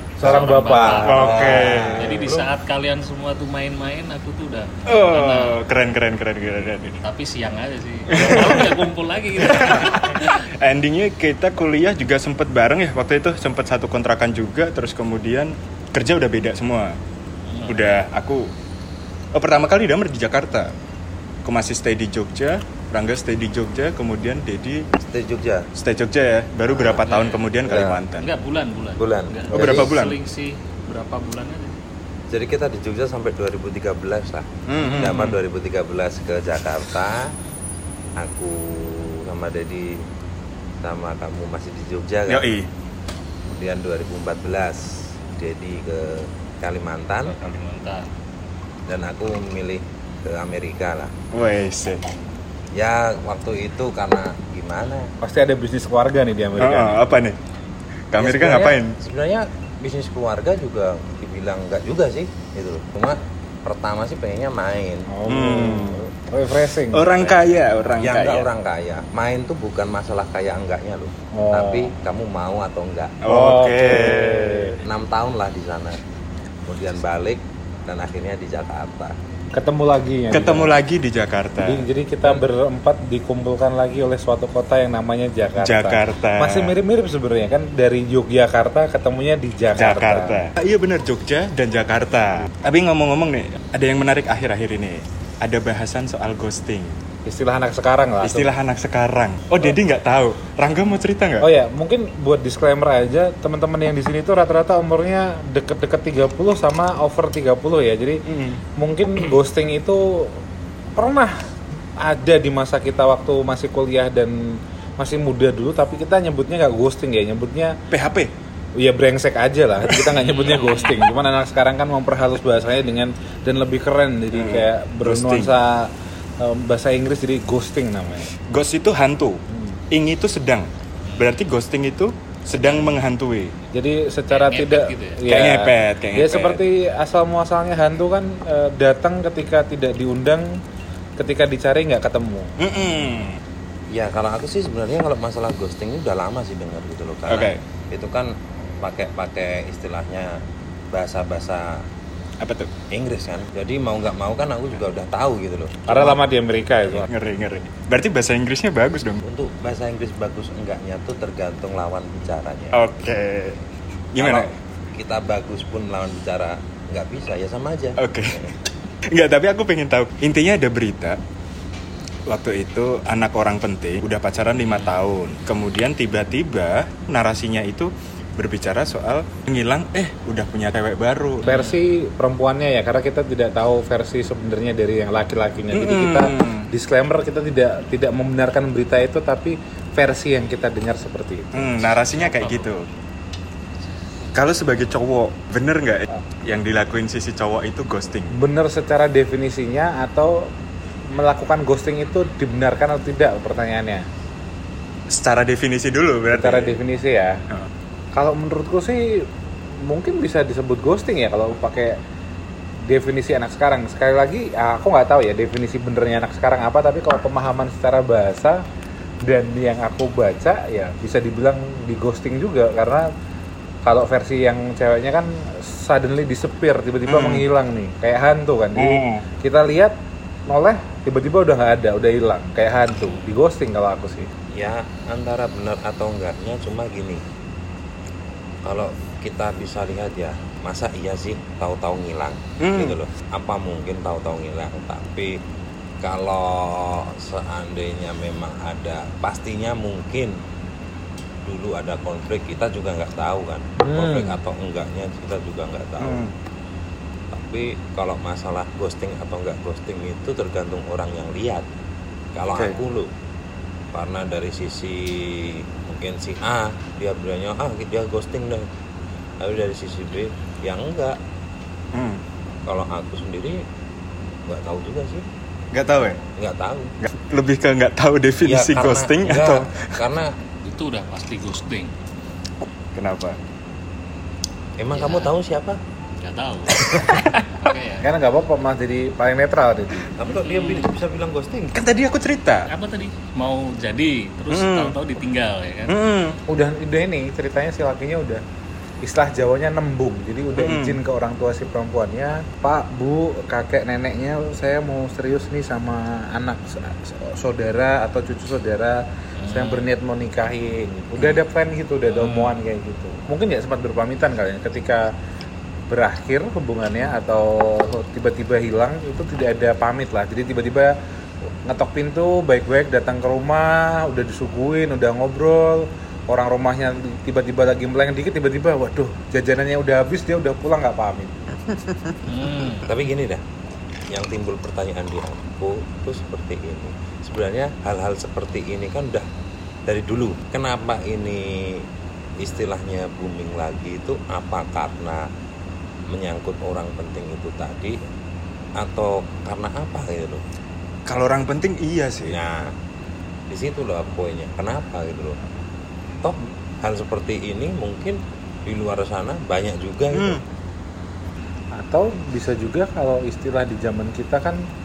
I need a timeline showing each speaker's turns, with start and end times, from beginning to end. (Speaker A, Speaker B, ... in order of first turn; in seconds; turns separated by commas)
Speaker A: 0.2-1.9, Speaker B: 0.2-5.6, Speaker C: 1.0-2.0, Speaker D: 1.1-2.5, Speaker C: 4.9-7.0, Speaker B: 7.0-10.3, Speaker C: 8.1-8.7, Speaker C: 9.4-16.9, Speaker B: 17.5-18.0, Speaker C: 17.7-18.5, Speaker C: 19.3-20.7, Speaker C: 21.4-24.9, Speaker D: 25.0-25.7, Speaker C: 25.8-28.3, Speaker D: 26.7-27.1, Speaker B: 27.0-27.4, Speaker D: 27.6-28.0, Speaker B: 28.2-31.8, Speaker D: 29.0-29.9, Speaker C: 29.5-30.2, Speaker D: 32.3-37.3, Speaker C: 34.7-35.4, Speaker D: 38.2-40.0, Speaker D: 40.8-42.5, Speaker C: 42.3-42.7, Speaker D: 43.5-47.4, Speaker B: 47.2-48.1, Speaker D: 48.9-51.1, Speaker C: 51.3-52.0, Speaker D: 52.7-55.1, Speaker A: 55.2-57.2, Speaker C: 56.6-57.4, Speaker C: 58.1-58.9, Speaker D: 58.2-65.1, Speaker A: 65.1-67.1, Speaker C: 65.3-66.0, Speaker C: 66.9-68.5, Speaker D: 67.2-67.4, Speaker D: 68.0-73.2, Speaker A: 71.3-71.9, Speaker C: 73.2-74.8, Speaker A: 73.2-74.8, Speaker D: 74.8-76.0, Speaker D: 76.7-79.2, Speaker A: 79.5-80.8, Speaker C: 80.3-82.4, Speaker A: 81.6-90.4, Speaker C: 85.6-86.7, Speaker C: 89.8-97.0, Speaker A: 97.3-98.5, Speaker C: 98.2-101.5, Speaker A: 101.4-108.2, Speaker C: 108.3-108.6, Speaker A: 108.8-110.3, Speaker A: 111.0-111.4, Speaker A: 112.0-117.7, Speaker C: 117.9-118.3, Speaker A: 118.8-128.3, Speaker C: 119.9-120.5, Speaker B: 120.3-120.9, Speaker C: 124.4-125.5, Speaker C: 128.5-133.5, Speaker A: 129.5-129.8, Speaker B: 131.1-131.4, Speaker B: 132.6-133.1, Speaker A: 133.7-140.5, Speaker B: 134.3-135.2, Speaker C: 135.3-136.6, Speaker A: 141.2-142.5, Speaker C: 142.6-143.4, Speaker D: 143.9-150.3, Speaker C: 147.3-147.6, Speaker D: 150.9-151.8, Speaker C: 152.4-152.7, Speaker D: 152.9-156.0, Speaker A: 155.9-157.1, Speaker C: 156.9-159.2, Speaker D: 159.2-162.8, Speaker C: 162.7-163.6, Speaker C: 164.1-164.5, Speaker D: 164.2-168.5, Speaker C: 168.0-168.4, Speaker C: 169.1-171.2, Speaker C: 172.3-181.6, Speaker B: 174.6-175.0, Speaker B: 181.4-181.8, Speaker A: 181.5-191.9, Speaker C: 185.7-186.7, Speaker C: 191.5-192.9, Speaker B: 192.1-192.7, Speaker C: 194.3-198.3, Speaker A: 198.3-200.5, Speaker A: 201.1-204.1, Speaker C: 205.1-206.8, Speaker A: 206.3-207.4, Speaker A: 208.1-209.2, Speaker A: 209.8-212.0, Speaker A: 212.9-218.6, Speaker A: 219.2-223.1, Speaker A: 223.8-229.9, Speaker C: 227.1-227.5, Speaker C: 228.8-229.2, Speaker A: 230.5-234.3, Speaker D: 234.5-237.2, Speaker D: 238.6-245.4, Speaker C: 242.6-243.0, Speaker D: 246.0-250.4, Speaker D: 251.4-256.3, Speaker A: 253.8-254.4, Speaker C: 256.0-256.3, Speaker D: 257.3-261.7, Speaker D: 262.4-263.1, Speaker D: 263.9-268.7, Speaker D: 269.4-271.2, Speaker C: 271.9-272.2, Speaker D: 272.7-273.6, Speaker D: 274.5-275.2, Speaker C: 275.7-276.2, Speaker D: 276.4-277.0, Speaker C: 277.0-279.9, Speaker D: 278.4-280.4, Speaker B: 280.6-281.9, Speaker C: 282.9-283.4, Speaker D: 284.8-285.8, Speaker B: 284.9-285.3, Speaker B: 286.2-288.1, Speaker C: 286.8-287.4, Speaker A: 288.0-290.1, Speaker D: 290.1-291.8, Speaker B: 290.3-290.9, Speaker C: 291.7-292.7, Speaker B: 292.6-296.0, Speaker C: 294.5-294.9, Speaker C: 295.9-296.4, Speaker A: 296.5-298.4, Speaker A: 299.0-315.1, Speaker C: 300.6-301.0, Speaker B: 309.4-309.9, Speaker B: 312.1-312.6, Speaker A: 315.9-321.0, Speaker A: 321.6-331.4, Speaker B: 332.3-332.9, Speaker D: 332.9-333.4, Speaker D: 334.1-339.3, Speaker D: 339.9-341.9, Speaker D: 342.4-345.3, Speaker D: 346.1-348.0, Speaker D: 348.8-350.4, Speaker C: 351.1-352.4, Speaker D: 352.3-352.7, Speaker D: 353.5-355.4, Speaker D: 356.2-360.4, Speaker C: 360.1-360.4, Speaker A: 361.7-364.6